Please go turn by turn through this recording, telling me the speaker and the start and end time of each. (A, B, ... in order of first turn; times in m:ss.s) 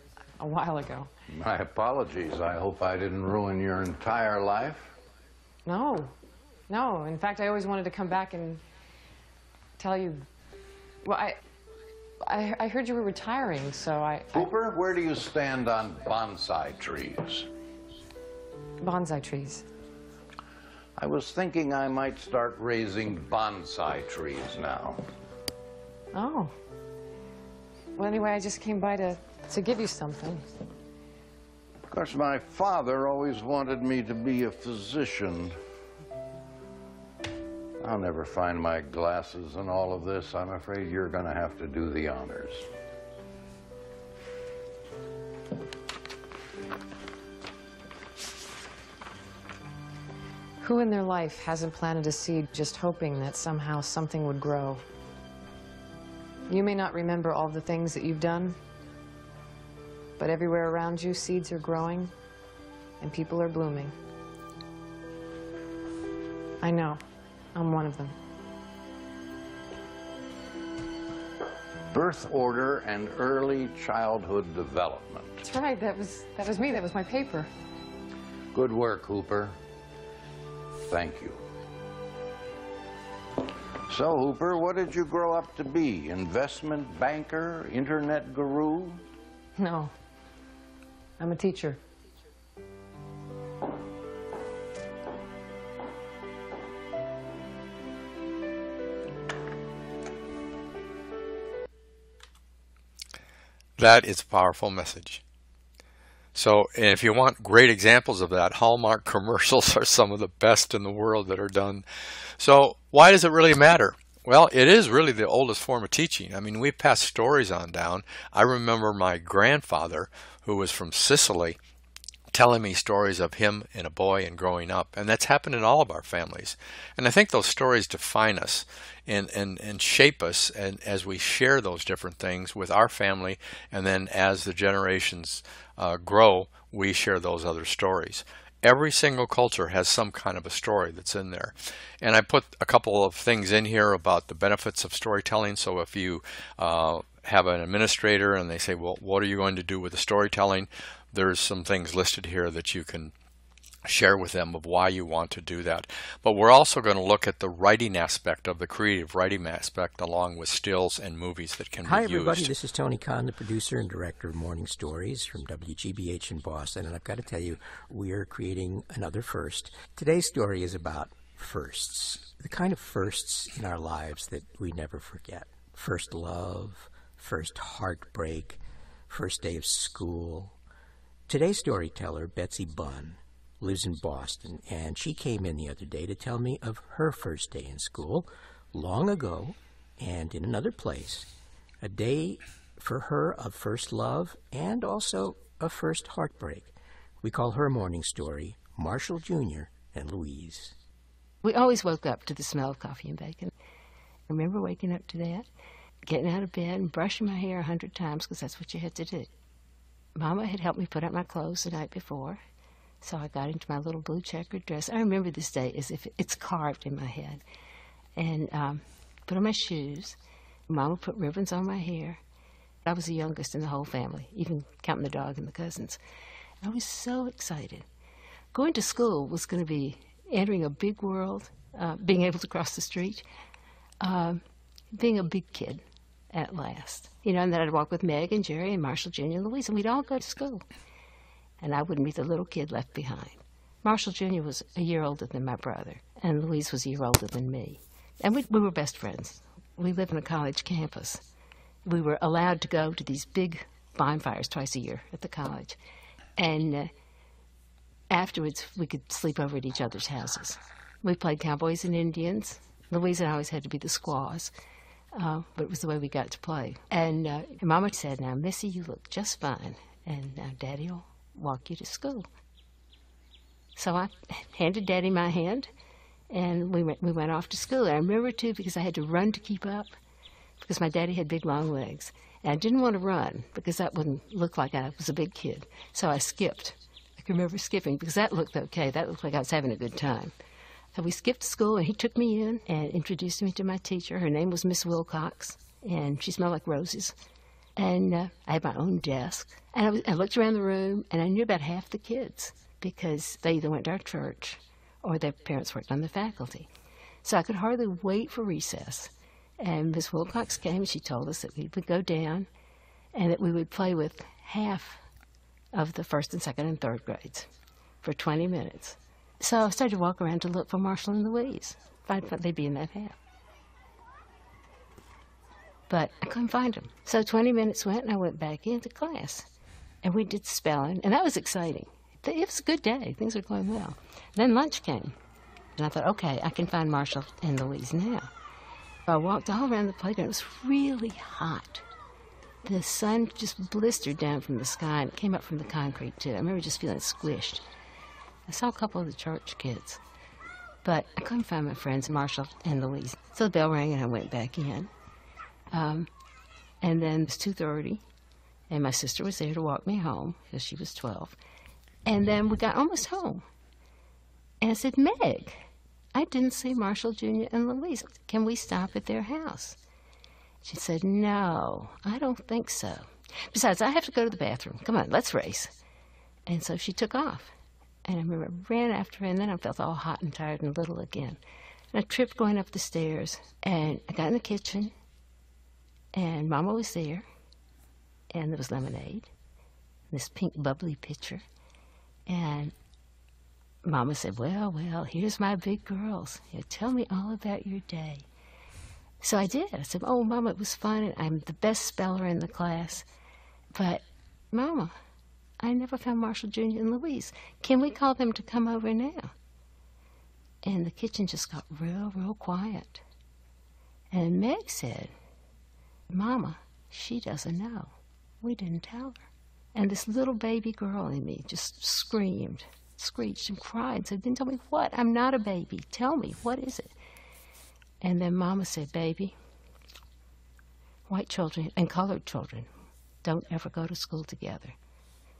0:00.4-0:01.1 A
0:01.3-0:04.9 B
0:05.6-0:06.1 A
0:06.7-0:08.6 A
0:09.8-0:10.2 A
0:11.0-0:11.4 A
0:12.2-0:14.5 A
0:14.3-0:17.5 B
0:18.8-0:19.6 A
0:21.0-0:25.0 B
0:26.1-0:26.5 A
0:28.0-0:30.4 A
0:31.9-0:35.6 B
0:37.8-0:42.7 B
0:50.6-0:54.8 A
0:56.5-0:58.6 A
1:00.2-1:02.1 A
1:03.0-1:03.9 A
1:06.6-1:07.0 A
1:07.5-1:08.2 A
1:11.9-1:15.4 B
1:15.4-1:17.5 A
1:18.5-1:19.5 B
1:20.9-1:21.4 B
1:23.9-1:29.0 B
1:29.6-1:29.9 A
1:31.2-1:31.8 A
1:43.8-1:45.2 C
1:46.3-1:51.8 C
1:52.4-2:01.6 C
2:02.3-2:33.1 C
2:33.8-2:42.5 C
2:41.8-3:00.5 D
3:01.3-3:11.3 D
3:11.8-3:20.7 D
3:21.4-3:23.5 E
3:24.3-3:25.4 E
3:26.1-3:29.3 E
3:30.2-3:32.4 E
3:33.0-3:37.4 E
3:38.2-3:40.2 E
3:40.7-3:42.2 E
3:42.8-3:46.0 E
3:46.6-3:47.8 E
3:48.5-3:53.2 E
3:54.0-3:54.4 E
3:54.9-4:00.6 E
4:01.6-4:11.2 E
4:11.8-4:15.8 E
4:16.4-4:16.9 E
4:18.1-4:24.5 E
4:25.1-4:32.3 E
4:33.8-4:35.7 E
4:36.3-4:39.9 E
4:40.6-4:50.3 E
4:50.9-4:57.2 E
4:57.8-5:06.7 E
5:07.2-5:12.5 E
5:13.1-5:15.0 E
5:15.7-5:17.5 E
5:18.0-5:23.2 E
5:25.9-5:29.5 E
5:30.0-5:35.1 E
5:35.8-5:38.3 E
5:39.1-5:41.8 E
5:42.6-5:47.6 E
5:48.5-5:50.0 E
5:50.8-5:54.9 E
5:55.7-5:56.1 E
5:56.8-5:58.0 E
5:58.7-6:01.4 E
6:02.0-6:03.4 E
6:04.6-6:09.8 E
6:10.6-6:15.7 E
6:16.5-6:17.5 E
6:18.0-6:21.4 E
6:21.9-6:24.9 E
6:26.1-6:27.2 E
6:28.3-6:29.3 E
6:30.1-6:31.4 E
6:32.3-6:32.7 E
6:33.8-6:38.2 E
6:39.2-6:43.0 E
6:43.7-6:44.9 E
6:45.6-6:49.3 E
6:50.6-6:53.0 E
6:54.1-6:55.1 E
6:56.1-6:59.2 E
6:59.7-7:06.9 E
7:08.0-7:09.4 E
7:11.1-7:12.7 E
7:13.2-7:14.8 E